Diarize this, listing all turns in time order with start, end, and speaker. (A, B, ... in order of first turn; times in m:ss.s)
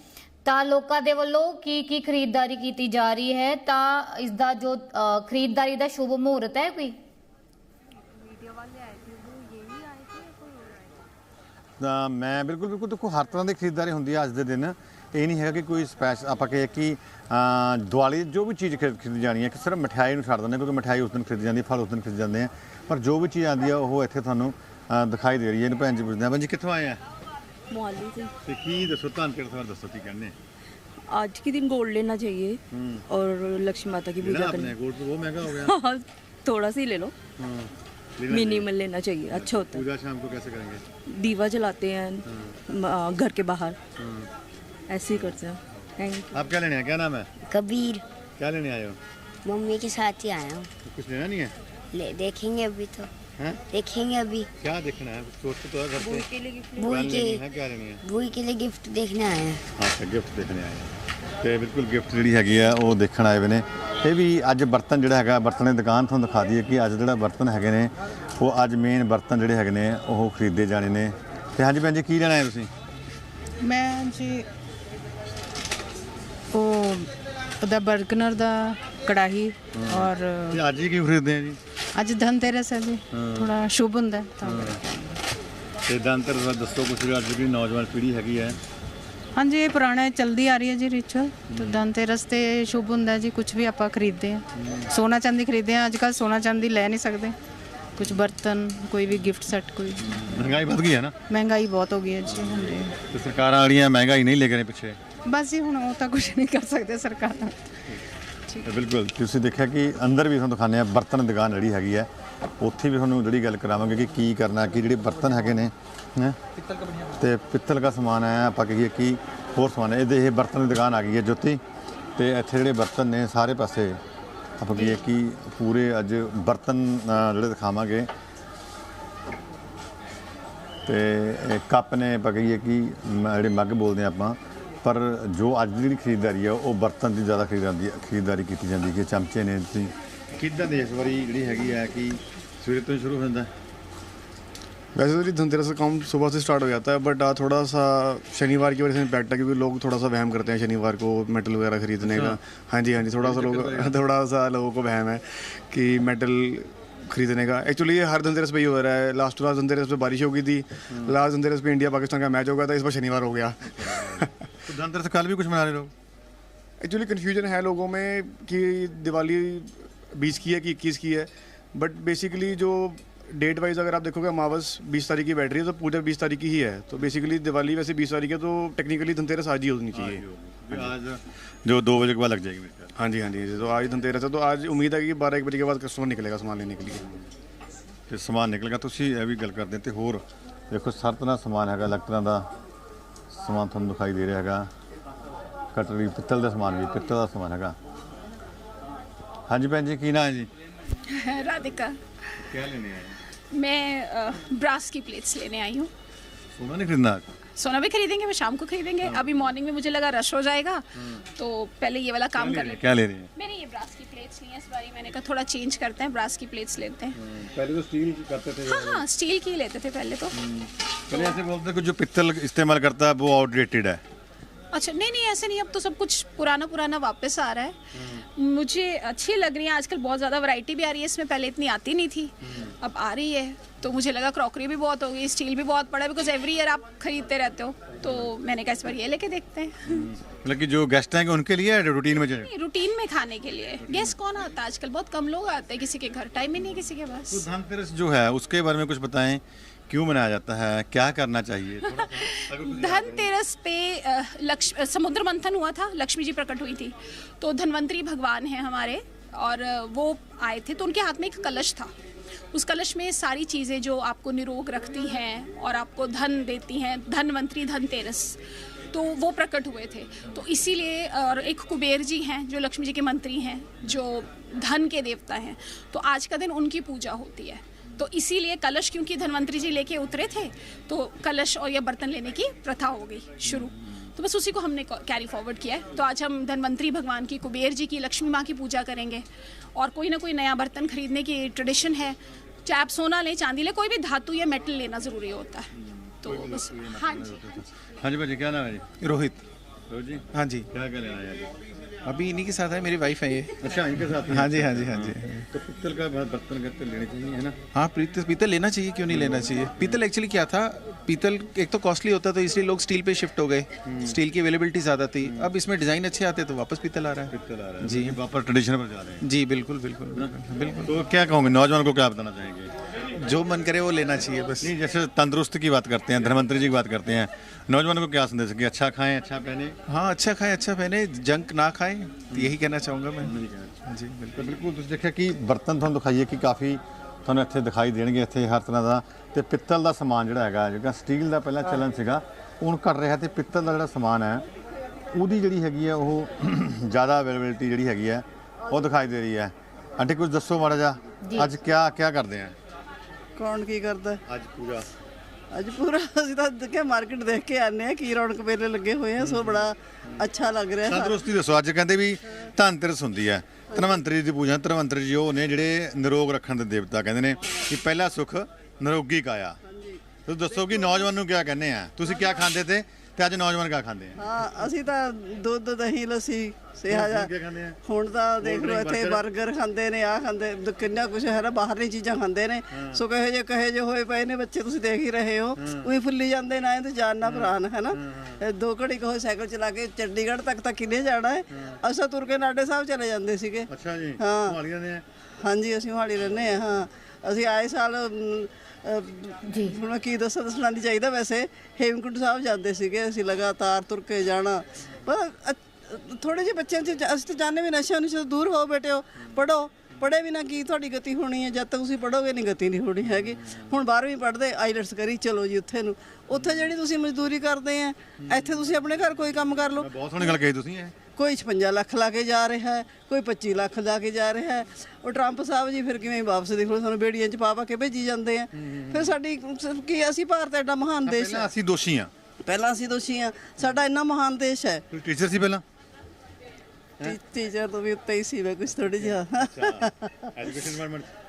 0:00.4-0:07.0 A
0:11.8-0:27.0 B
0:27.7-0:28.3 C
0:28.4-0:30.4 B
0:31.1-0:34.7 C
0:32.7-0:33.0 B
0:34.2-0:35.8 B
0:35.5-0:37.1 C
0:37.4-0:38.7 B
0:38.3-0:39.8 C
0:39.3-0:40.8 B
0:41.1-0:43.8 C
0:42.3-0:42.6 B
0:44.0-0:44.3 B
0:44.9-0:46.4 C
0:45.1-0:45.4 B
0:46.3-0:47.3 B
0:47.5-0:48.0 D
0:48.4-0:49.0 B
0:49.4-0:50.7 D
0:50.8-0:51.5 B
0:51.9-0:53.1 D
0:53.7-0:54.5 D
0:54.6-0:56.3 B
0:56.0-0:57.1 C
0:56.8-0:57.4 D
0:56.8-0:58.0 B
0:58.0-0:59.6 D
0:59.8-1:12.7 B
1:13.6-1:14.5 E
1:16.5-1:17.1 E
1:17.6-1:20.6 E
1:19.7-1:21.6 B
1:22.0-1:25.2 E
1:23.1-1:23.5 B
1:24.4-1:24.8 B
1:25.9-1:28.6 B
1:29.4-1:37.4 E
1:31.5-1:31.8 B
1:34.6-1:34.9 B
1:38.0-1:40.3 E
1:40.0-1:41.2 B
1:41.3-1:43.0 E
1:43.1-1:45.0 B
1:45.3-1:47.7 E
1:48.6-1:52.1 B
1:52.6-1:56.4 B
1:57.2-2:01.6 B
2:02.2-2:04.0 B
2:04.6-2:08.1 B
2:10.9-2:23.5 B
2:25.0-2:44.3 F
2:32.0-2:32.4 B
2:33.2-2:34.0 B
2:40.9-2:41.2 B
2:43.7-2:45.9 B
2:46.8-3:00.2 F
2:59.9-3:02.9 B
3:03.0-3:07.1 F
3:08.1-3:12.5 B
3:13.3-3:14.7 B
3:15.7-3:17.8 B
3:19.5-3:20.5 B
3:21.1-3:22.0 G
3:22.4-3:23.2 B
3:23.5-3:25.9 G
3:26.6-3:27.3 B
3:27.6-3:37.2 G
3:31.0-3:31.2 B
3:32.3-3:33.3 B
3:37.2-3:39.0 B
3:38.7-3:40.4 G
3:40.3-3:44.0 B
3:44.7-3:47.8 G
3:47.9-3:48.2 B
3:48.4-4:00.1 G
3:52.4-3:52.7 B
3:59.9-4:02.5 B
4:02.4-4:07.5 G
4:03.8-4:04.2 B
4:07.3-4:13.3 B
4:12.1-4:21.9 G
4:22.5-4:28.4 G
4:28.9-4:49.2 G
4:49.8-4:55.7 G
4:55.8-4:58.9 B
4:56.2-4:57.6 G
4:59.0-4:59.4 H
4:59.9-5:01.6 B
5:00.3-5:00.7 H
5:02.0-5:05.5 H
5:03.6-5:07.6 B
5:07.7-5:18.2 H
5:09.1-5:10.0 B
5:13.8-5:14.2 B
5:15.2-5:15.5 B
5:17.3-5:19.3 B
5:19.2-5:20.9 H
5:20.1-5:22.7 B
5:23.1-5:24.7 H
5:24.6-5:29.8 B
5:29.9-5:33.3 H
5:32.3-5:32.6 B
5:33.2-5:33.8 B
5:33.9-5:34.5 H
5:34.3-5:44.4 B
5:45.1-5:52.6 B
5:51.2-5:51.5 A
5:53.4-5:54.2 I
5:54.3-5:54.9 B
5:55.5-6:01.2 I
5:59.2-5:59.6 B
6:00.8-6:09.6 B
6:09.7-6:10.0 I
6:10.3-6:14.2 B
6:14.2-6:17.3 I
6:16.9-6:17.8 B
6:17.8-6:34.6 I
6:18.4-6:19.2 B
6:22.7-6:23.0 B
6:25.6-6:25.9 B
6:27.2-6:28.4 B
6:31.5-6:31.8 B
6:33.7-6:35.0 B
6:35.4-7:00.4 I
6:39.5-6:39.7 A
6:53.1-6:53.6 B
6:59.7-7:01.0 B
7:01.2-7:11.5 I
7:08.6-7:09.2 B
7:11.0-7:12.1 B
7:12.5-7:14.8 I
7:14.9-7:15.6 B
7:17.0-7:20.1 I
7:19.3-7:21.1 B